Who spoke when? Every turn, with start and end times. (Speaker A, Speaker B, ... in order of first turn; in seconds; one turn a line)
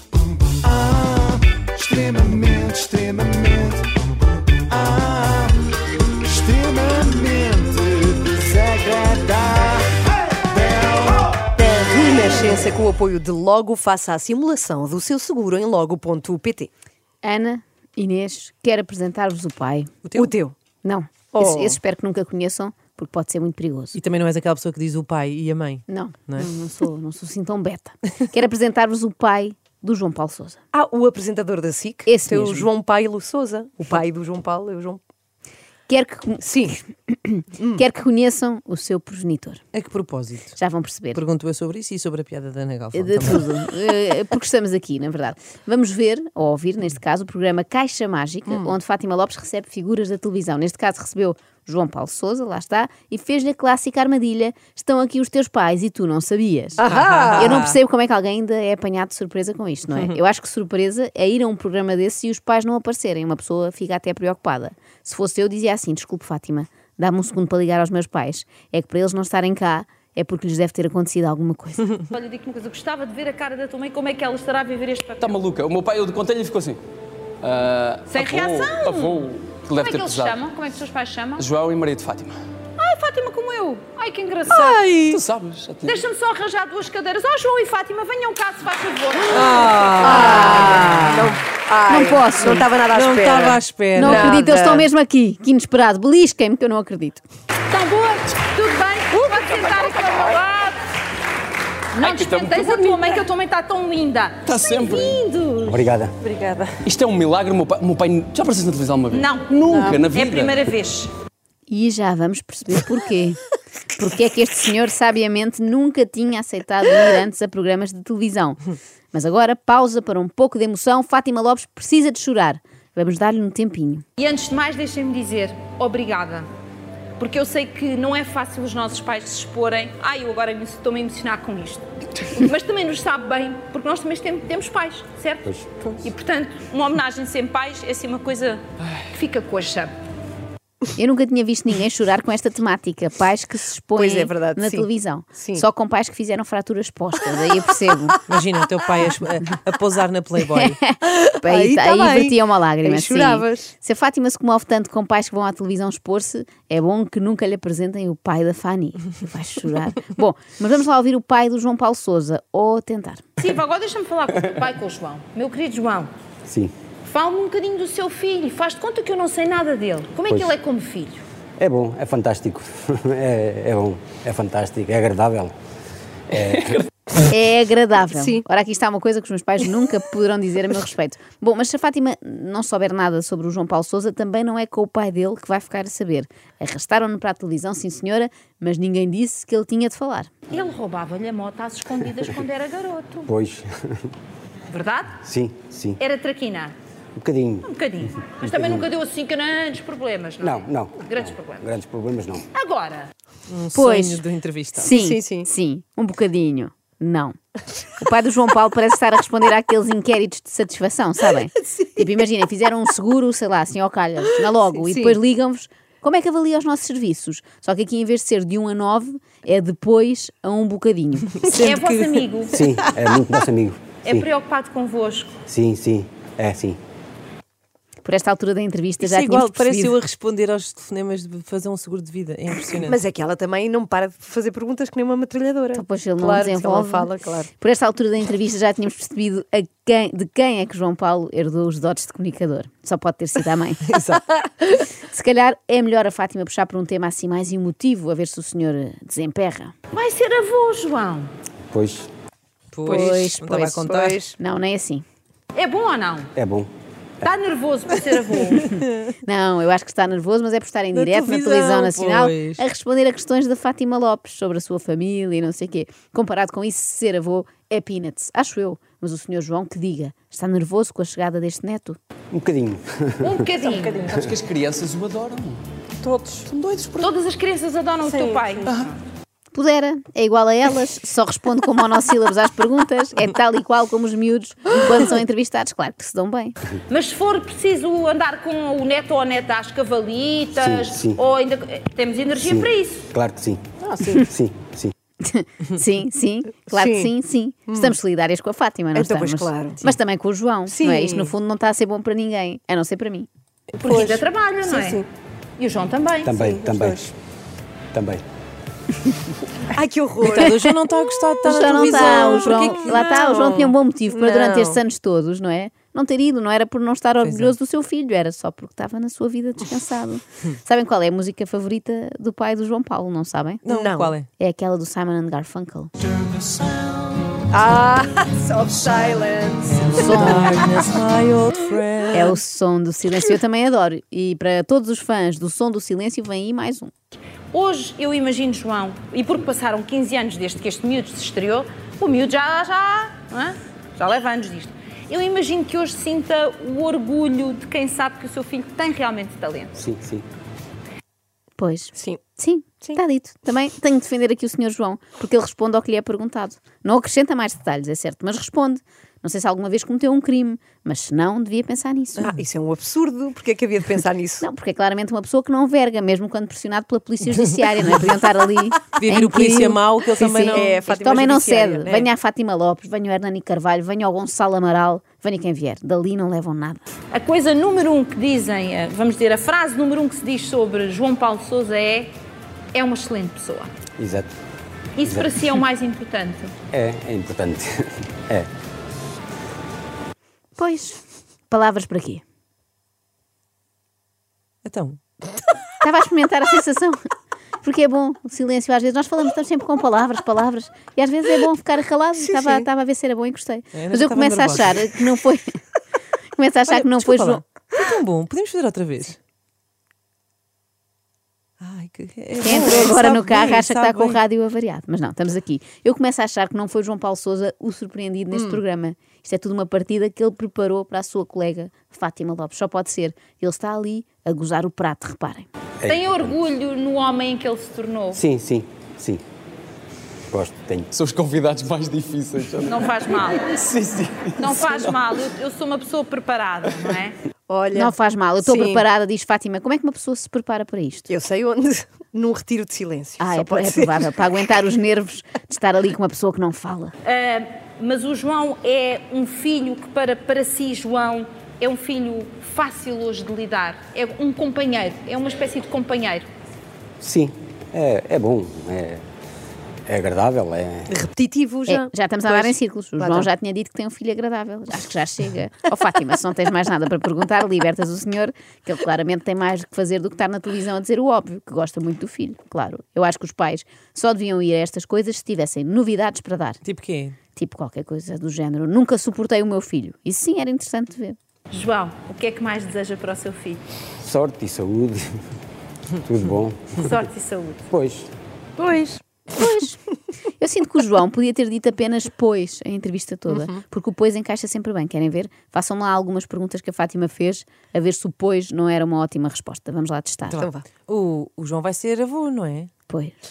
Speaker A: 0.4-4.0
Speaker A: 4.7-5.6
Speaker A: 6.2-9.9
Speaker A: 10.4-11.5
Speaker B: 11.5-16.7
Speaker C: 17.2-24.0
Speaker B: 20.1-20.7
Speaker B: 21.2-21.8
Speaker D: 23.9-26.5
Speaker C: 25.9-30.6
Speaker B: 30.7-35.0
Speaker C: 32.0-32.7
Speaker C: 35.9-39.6
Speaker B: 36.4-36.8
Speaker D: 39.7-40.6
Speaker C: 40.6-41.2
Speaker D: 41.1-43.5
Speaker C: 42.9-72.0
Speaker B: 56.8-57.6
Speaker D: 56.9-57.8
Speaker E: 72.1-75.4
Speaker F: 75.2-76.8
Speaker F: 77.4-80.3
Speaker E: 78.1-81.5
Speaker F: 81.4-82.4
Speaker E: 82.8-84.8
Speaker D: 84.5-85.2
Speaker F: 84.5-86.0
Speaker E: 85.8-90.3
Speaker D: 89.3-91.2
Speaker B: 90.0-94.9
Speaker C: 90.3-91.3
Speaker C: 91.9-92.8
Speaker D: 92.9-94.4
Speaker C: 94.0-97.2
Speaker E: 97.7-100.8
Speaker E: 101.9-105.8
Speaker F: 102.1-103.0
Speaker F: 104.5-105.2
Speaker G: 105.7-106.2
Speaker B: 106.3-106.7
Speaker F: 106.8-110.5
Speaker E: 109.1-111.1
Speaker B: 109.7-110.1
Speaker C: 111.7-113.4
Speaker C: 114.0-118.6
Speaker C: 119.1-124.0
Speaker E: 124.2-126.5
Speaker E: 127.2-139.9
Speaker G: 135.5-135.9
Speaker C: 141.0-148.2
Speaker B: 143.9-145.7
Speaker D: 148.3-150.8
Speaker C: 150.5-163.2
Speaker B: 151.0-153.8
Speaker E: 163.4-166.1
Speaker G: 166.5-166.7
Speaker E: 167.1-171.2
Speaker G: 171.6-175.5
Speaker G: 176.3-176.8
Speaker C: 177.3-190.3
Speaker B: 178.2-178.4
Speaker E: 190.5-193.3
Speaker G: 193.3-194.1
Speaker E: 194.7-195.2
Speaker G: 195.2-196.0
Speaker E: 196.0-196.8
Speaker G: 197.2-197.7
Speaker E: 197.6-201.7
Speaker G: 198.4-198.9
Speaker G: 200.4-202.5
Speaker E: 202.5-203.1
Speaker D: 203.5-205.0
Speaker C: 203.7-207.4
Speaker B: 205.0-205.5
Speaker C: 208.0-221.5
Speaker B: 211.6-211.9
Speaker B: 214.3-215.2
Speaker D: 221.5-222.2
Speaker E: 221.6-222.6
Speaker G: 222.5-224.3
Speaker E: 224.0-225.4
Speaker G: 225.5-226.8
Speaker C: 228.1-230.0
Speaker D: 229.0-233.0
Speaker B: 232.8-237.5
Speaker C: 235.7-249.7
Speaker E: 249.9-251.3
Speaker G: 251.7-252.1
Speaker D: 252.7-254.2
Speaker C: 252.8-255.0
Speaker B: 253.7-254.3
Speaker E: 255.5-256.3
Speaker G: 256.4-256.7
Speaker E: 257.2-258.8
Speaker C: 258.6-272.0
Speaker D: 260.9-262.6
Speaker G: 272.3-273.4
Speaker E: 273.2-274.1
Speaker F: 273.8-275.6
Speaker G: 274.1-274.3
Speaker F: 276.3-277.1
Speaker E: 277.0-279.0
Speaker C: 279.5-286.6
Speaker E: 286.9-293.1
Speaker G: 290.6-291.2
Speaker G: 292.4-293.6
Speaker B: 293.8-294.2
Speaker G: 294.2-294.9
Speaker C: 295.2-303.3
Speaker B: 296.7-297.1
Speaker B: 297.7-297.9
Speaker B: 298.9-299.9
Speaker B: 300.7-301.3
Speaker E: 303.8-305.0
Speaker B: 303.8-305.1
Speaker E: 305.6-306.4
Speaker G: 306.2-307.0
Speaker B: 306.4-307.1
Speaker G: 307.9-308.2
Speaker B: 309.7-310.5
Speaker D: 310.3-313.2
Speaker C: 310.4-310.8
Speaker C: 311.4-323.7
Speaker B: 311.9-314.8
Speaker D: 317.2-317.6
Speaker D: 323.6-324.3
Speaker B: 323.7-324.2
Speaker C: 324.3-325.9
Speaker B: 327.5-330.1
Speaker D: 329.7-332.4
Speaker C: 329.9-330.7
Speaker C: 332.1-336.9
Speaker E: 337.5-349.8
Speaker G: 349.8-350.2
Speaker C: 351.6-362.4
Speaker B: 351.9-352.3
Speaker B: 362.2-364.5
Speaker C: 364.4-376.9
Speaker D: 368.9-370.7
Speaker B: 370.2-372.1
Speaker E: 377.1-382.1
Speaker E: 382.7-383.7
Speaker G: 384.0-384.3
Speaker E: 385.0-386.6
Speaker G: 386.7-388.5
Speaker C: 390.6-392.2
Speaker D: 394.6-395.0
Speaker C: 395.8-397.0
Speaker C: 397.6-405.5
Speaker D: 403.7-404.9
Speaker C: 406.4-407.5
Speaker D: 406.7-409.2
Speaker D: 411.6-414.2
Speaker C: 412.4-425.5
Speaker B: 418.3-418.6
Speaker G: 425.8-426.4
Speaker E: 425.9-428.2
Speaker G: 428.1-429.2
Speaker G: 430.3-430.9
Speaker F: 430.9-432.7
Speaker E: 432.6-433.5
Speaker F: 433.4-434.8
Speaker E: 434.4-437.2
Speaker B: 437.5-438.9
Speaker C: 437.8-441.1
Speaker B: 441.1-444.1
Speaker C: 443.2-446.9
Speaker E: 447.0-456.3
Speaker G: 457.0-459.0
Speaker G: 459.9-460.9
Speaker B: 460.9-463.3
Speaker C: 461.7-476.6
Speaker D: 476.6-477.2
Speaker C: 477.4-481.2
Speaker E: 481.5-483.6
Speaker G: 484.0-485.1
Speaker G: 486.0-486.9
Speaker E: 486.8-487.7
Speaker G: 487.7-488.1
Speaker D: 488.7-488.9
Speaker C: 489.3-489.8
Speaker C: 490.4-500.5
Speaker B: 493.3-493.6
Speaker D: 500.3-502.7
Speaker B: 500.4-500.7
Speaker C: 502.9-503.1